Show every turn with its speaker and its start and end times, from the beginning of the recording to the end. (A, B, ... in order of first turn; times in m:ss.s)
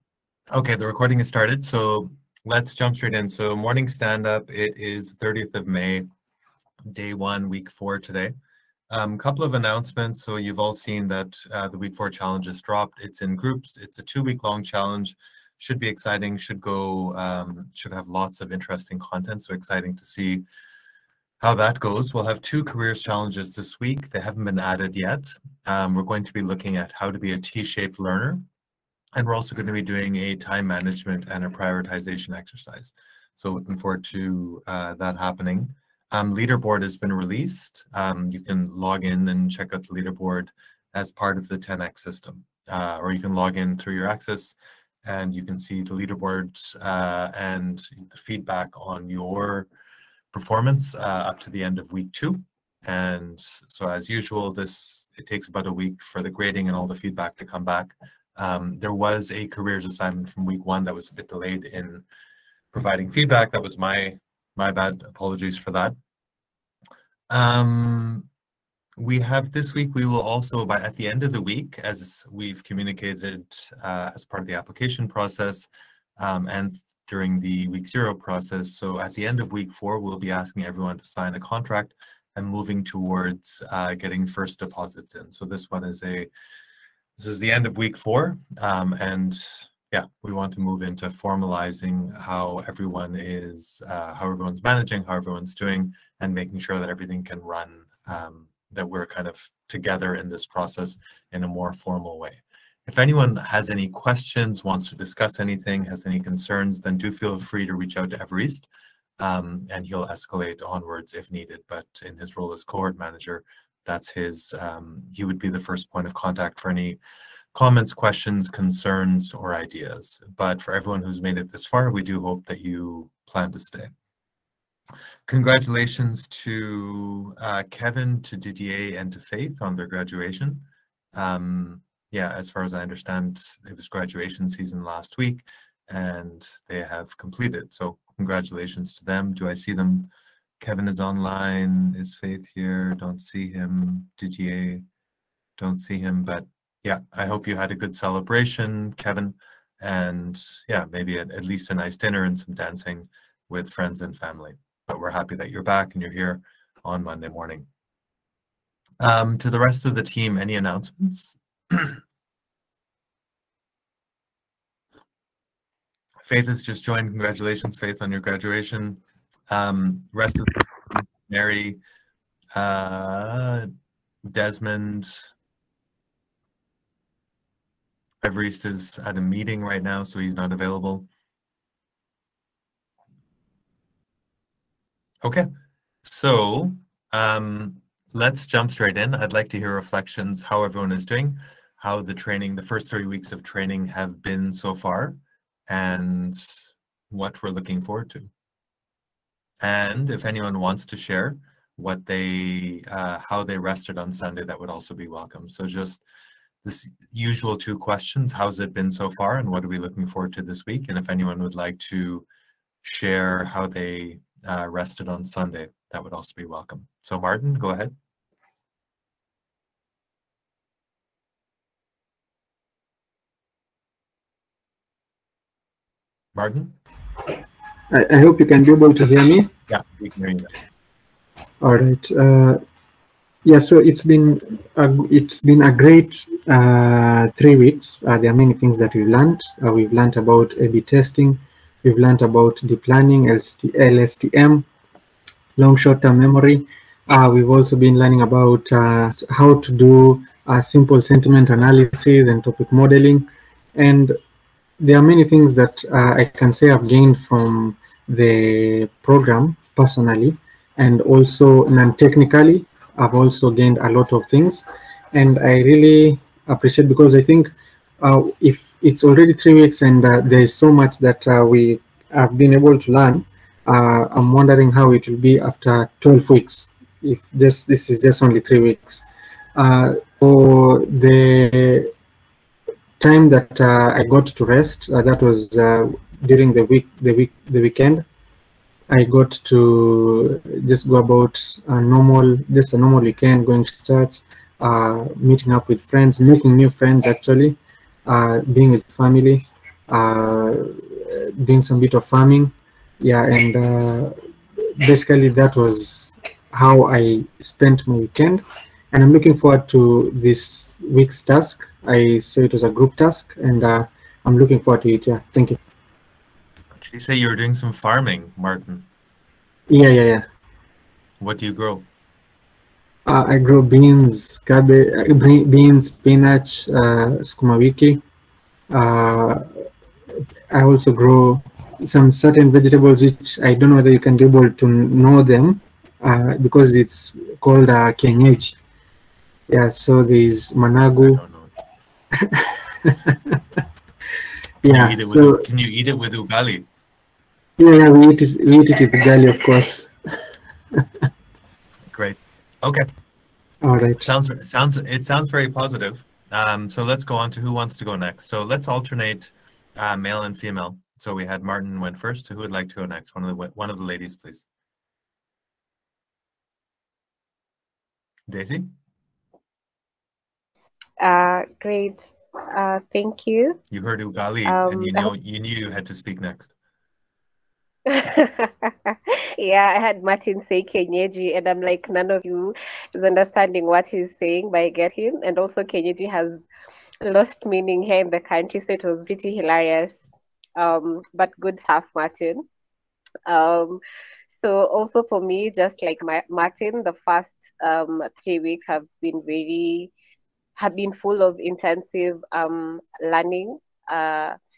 0:00.5-0:06.1 A
0:06.8-0:08.4 A
0:08.9-0:20.5 A
0:21.4-0:28.5 A
0:29.2-0:49.7 A
0:50.3-1:02.1 A
1:02.7-1:06.0 A
1:07.3-1:08.3 A
1:09.0-1:26.3 A
1:27.2-1:48.7 A
1:49.2-1:57.0 A
1:57.5-2:03.9 A
2:05.3-2:24.9 A
2:25.6-2:37.7 A
2:39.0-2:42.0 A
2:46.3-2:51.8 A
2:52.5-2:53.7 A
2:54.2-2:55.3 A
2:58.2-3:01.1 A
3:05.2-3:05.5 A
3:06.0-3:18.3 A
3:19.6-3:26.0 A
3:26.6-3:32.3 A
3:32.8-3:37.9 A
3:46.4-3:46.8 A
3:47.9-3:49.5 B
3:49.7-3:50.5 A
3:51.6-3:52.6 B
3:53.4-4:04.7 B
4:05.6-4:14.2 B
4:14.8-4:39.0 B
4:39.6-4:41.9 B
4:43.0-4:48.0 B
4:48.9-5:04.2 B
5:04.8-5:15.6 B
5:16.8-5:18.9 A
5:19.7-5:20.2 B
5:21.2-5:21.9 A
5:23.1-5:28.0 B
5:28.7-5:29.5 B
5:30.5-5:38.6 B
5:39.5-5:41.2 B
5:41.0-5:41.5 A
5:42.2-5:43.2 B
5:44.6-5:45.5 B
5:44.6-5:46.7 A
5:47.6-5:49.9 B
5:51.9-5:52.9 A
5:53.6-5:54.2 B
5:54.0-6:04.5 A
6:08.3-6:08.7 A
6:11.0-6:13.6 C
6:13.7-6:16.5 A
6:14.5-6:15.1 C
6:17.9-6:26.5 C
6:27.0-6:32.4 C
6:33.3-6:39.9 C
6:40.6-6:44.4 C